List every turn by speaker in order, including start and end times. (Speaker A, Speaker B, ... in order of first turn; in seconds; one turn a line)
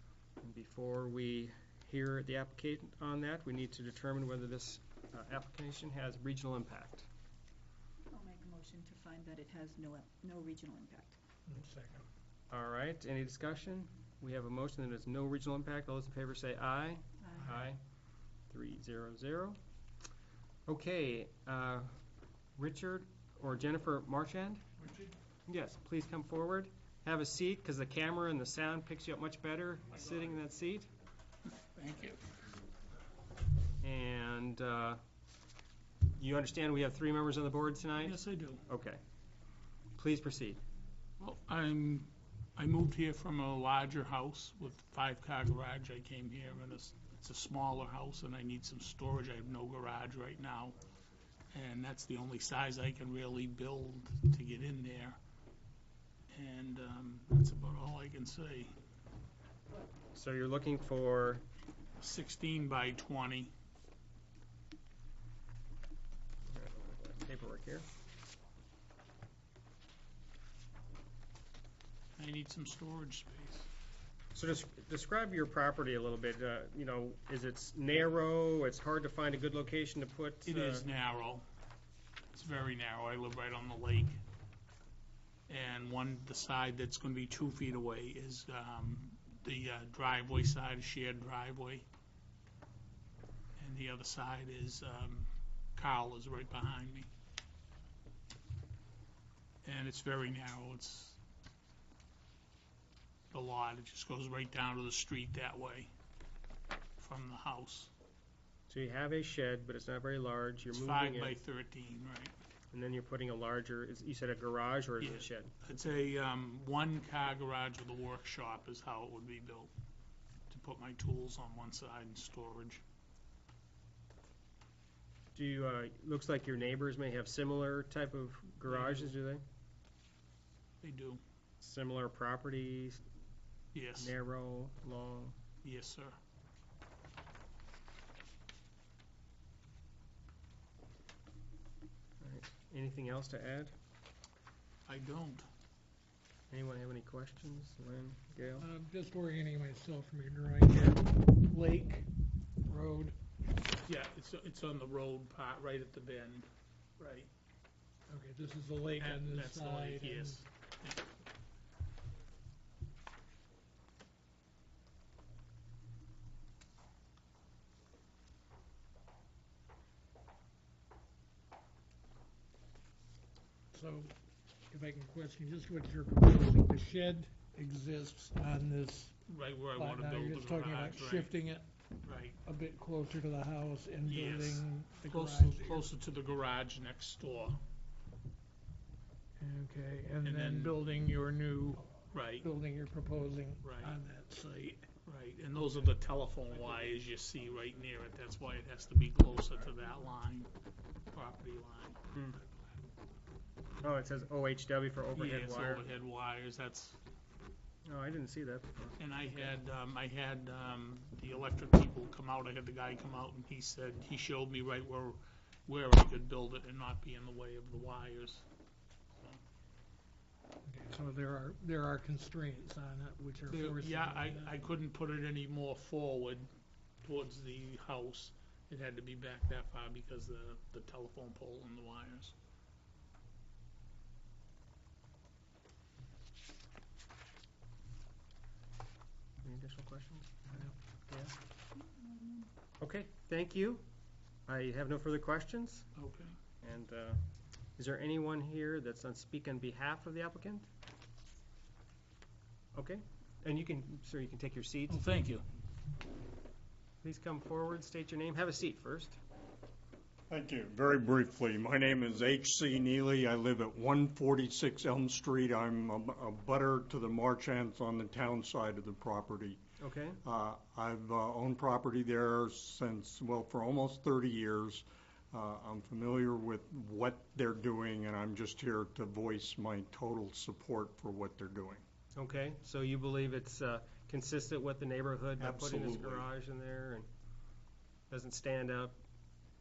Speaker A: 0.4-7.1
Speaker B: 8.1-11.2
Speaker C: 11.5-12.1
Speaker A: 12.5-17.8
Speaker B: 17.2-17.5
Speaker A: 18.5-19.6
Speaker A: 20.7-21.9
Speaker A: 22.6-24.6
Speaker A: 25.5-30.9
Speaker D: 31.6-32.2
Speaker A: 33.8-35.0
Speaker A: 36.2-39.0
Speaker D: 38.0-38.6
Speaker A: 40.0-40.6
Speaker D: 41.2-50.8
Speaker D: 51.5-55.2
Speaker D: 56.3-58.8
Speaker A: 60.1-61.4
Speaker D: 62.0-63.5
Speaker A: 66.5-67.9
Speaker D: 72.2-73.7
Speaker A: 74.3-80.9
Speaker D: 80.5-81.5
Speaker D: 82.3-84.2
Speaker D: 85.5-91.9
Speaker D: 93.6-97.1
Speaker D: 99.6-101.2
Speaker D: 103.3-105.9
Speaker D: 107.0-107.9
Speaker A: 108.7-111.3
Speaker D: 110.7-112.3
Speaker A: 112.7-115.5
Speaker D: 115.0-119.7
Speaker D: 120.5-122.8
Speaker A: 125.3-129.4
Speaker D: 128.7-129.1
Speaker D: 130.8-131.2
Speaker A: 131.6-133.0
Speaker D: 133.7-134.1
Speaker A: 134.0-135.4
Speaker D: 135.6-136.2
Speaker A: 142.2-143.7
Speaker D: 144.9-145.5
Speaker A: 146.5-148.7
Speaker C: 148.6-152.1
Speaker C: 152.7-153.2
Speaker D: 153.8-157.3
Speaker C: 158.1-160.4
Speaker D: 159.0-161.1
Speaker C: 173.7-174.1
Speaker C: 174.7-179.2
Speaker D: 179.3-181.3
Speaker C: 179.8-181.7
Speaker D: 182.0-182.4
Speaker C: 182.4-185.9
Speaker D: 184.1-187.6
Speaker C: 189.4-194.9
Speaker D: 190.2-190.8
Speaker D: 192.1-192.5
Speaker D: 193.6-194.0
Speaker D: 195.1-200.5
Speaker D: 201.1-202.0
Speaker A: 203.8-205.9
Speaker D: 205.2-207.0
Speaker A: 207.9-209.0
Speaker D: 209.0-218.5
Speaker C: 220.7-224.7
Speaker D: 223.5-226.5
Speaker D: 227.0-232.3
Speaker A: 239.4-241.3
Speaker B: 242.1-242.5
Speaker A: 242.8-243.8
Speaker A: 244.5-245.9
Speaker D: 246.0-246.4
Speaker A: 246.6-247.2
Speaker A: 247.8-250.7
Speaker A: 252.8-255.0
Speaker D: 254.9-255.4
Speaker A: 257.0-259.2
Speaker E: 260.3-269.6
Speaker A: 269.8-270.2
Speaker E: 270.2-281.8
Speaker A: 282.1-287.1
Speaker E: 285.4-286.3
Speaker A: 288.1-289.0